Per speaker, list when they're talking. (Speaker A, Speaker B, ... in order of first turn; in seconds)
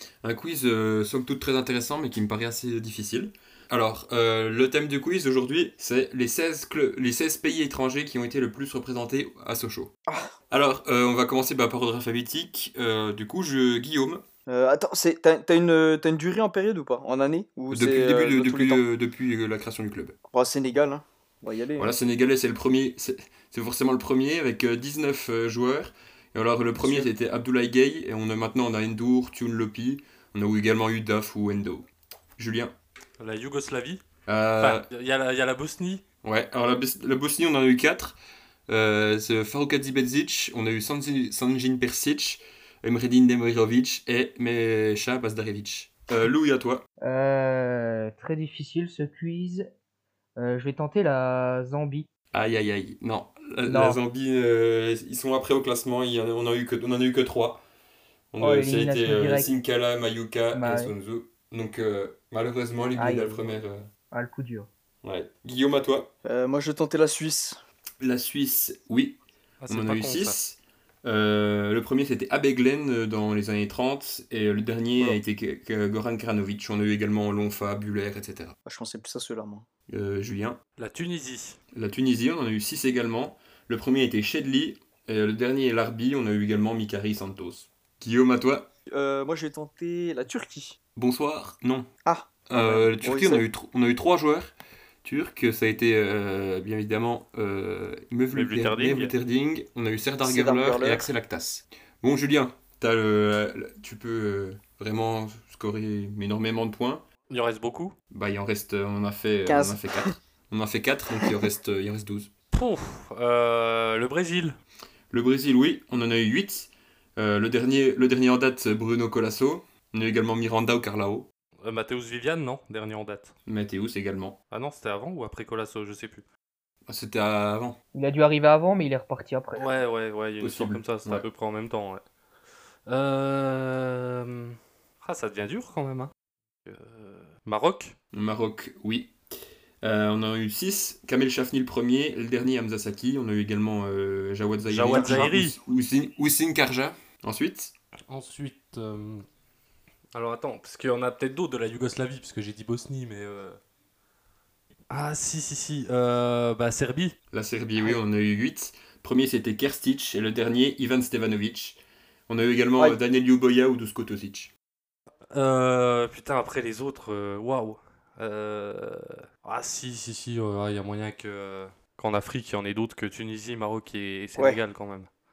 Speaker A: 0.2-9.9, 10.5-14.2, 17.7-20.1, 21.8-32.7, 34.2-34.8, 36.2-38.2, 38.7-46.8, 52.3-57.6, 58.3-63.8, 65.0-66.1, 68.0-78.5, 79.9-80.6, 81.7-88.7, 91.0-91.9, 92.5-107.0, 108.1-112.3, 115.1-121.3, 123.5-124.4, 126.9-127.8, 130.4-131.2, 138.1-139.1, 139.8-147.7, 157.3-164.5
Speaker B: 14.5-18.8, 20.3-21.9, 26.8-27.1, 66.2-67.6, 78.6-79.6, 88.9-90.8, 92.0-93.4, 100.2-101.1, 109.5-110.2, 144.9-145.3
Speaker C: 33.2-34.0, 34.6-36.0, 69.6-70.3, 80.8-81.6, 98.3-99.1, 107.3-108.0, 112.5-114.6, 121.6-123.3, 124.5-126.2, 129.6-132.0, 132.9-136.1, 136.7-137.9, 144.6-145.6, 148.1-149.2, 150.1-153.6, 154.9-157.1, 165.3-175.1
Speaker D: 47.0-49.7, 50.4-52.1, 53.6-54.0, 58.4-59.5, 60.5-60.9, 62.9-63.6, 64.1-64.7, 127.9-129.8